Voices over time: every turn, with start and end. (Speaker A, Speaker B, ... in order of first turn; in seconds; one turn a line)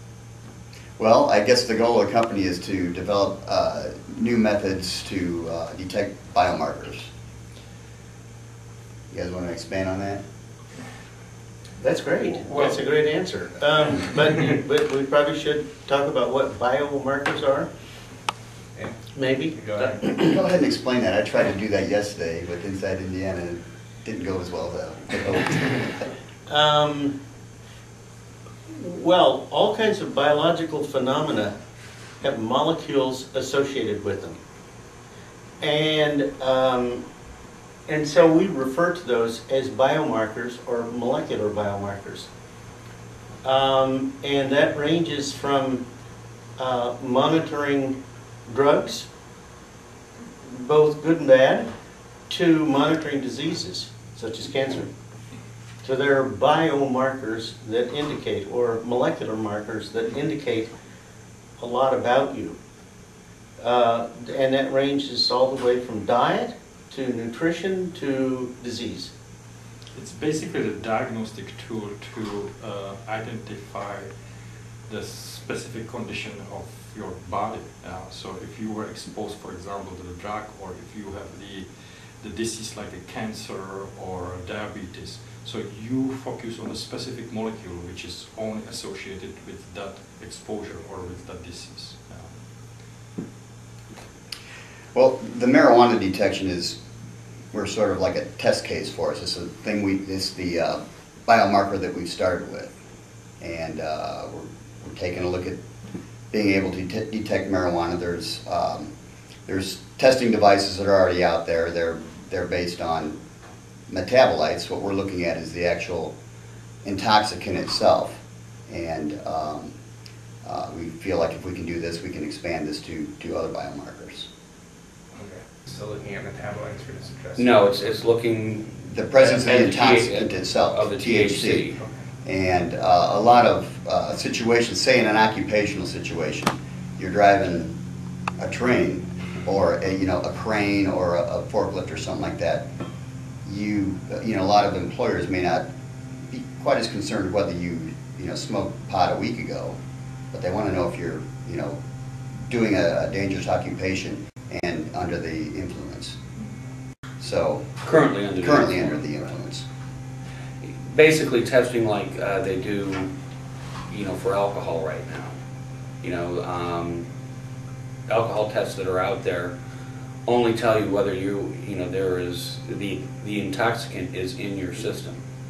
Speaker A: 1.0-7.1
Speaker A: 9.1-10.2
Speaker B: 11.8-17.7
Speaker C: 18.7-20.2
Speaker B: 19.1-20.4
Speaker A: 20.0-26.0
Speaker B: 26.5-27.1
Speaker B: 28.7-31.5
Speaker B: 32.2-34.4
Speaker B: 35.6-37.0
Speaker B: 37.9-42.3
Speaker B: 43.4-45.8
Speaker B: 46.6-47.9
Speaker B: 48.5-49.1
Speaker B: 50.4-51.7
Speaker B: 52.3-54.9
Speaker B: 55.8-60.7
Speaker B: 61.6-62.6
Speaker B: 63.6-69.1
Speaker D: 69.9-92.4
Speaker A: 94.9-96.8
Speaker A: 97.5-102.7
Speaker A: 103.4-105.6
Speaker A: 106.3-108.9
Speaker A: 109.5-113.1
Speaker A: 113.9-116.1
Speaker A: 116.8-119.7
Speaker A: 120.4-124.3
Speaker C: 125.1-128.0
Speaker E: 127.3-131.8
Speaker A: 128.9-131.7
Speaker C: 131.8-132.1
Speaker A: 132.2-137.7
Speaker A: 138.4-142.6
Speaker A: 143.4-145.6
Speaker A: 146.3-149.7
Speaker A: 150.3-151.8
Speaker A: 152.5-156.2
Speaker A: 157.2-157.7
Speaker E: 157.8-159.2
Speaker A: 158.4-159.6
Speaker E: 160.6-163.1
Speaker E: 163.9-165.3
Speaker E: 166.0-167.1
Speaker E: 168.1-169.5
Speaker E: 170.2-175.2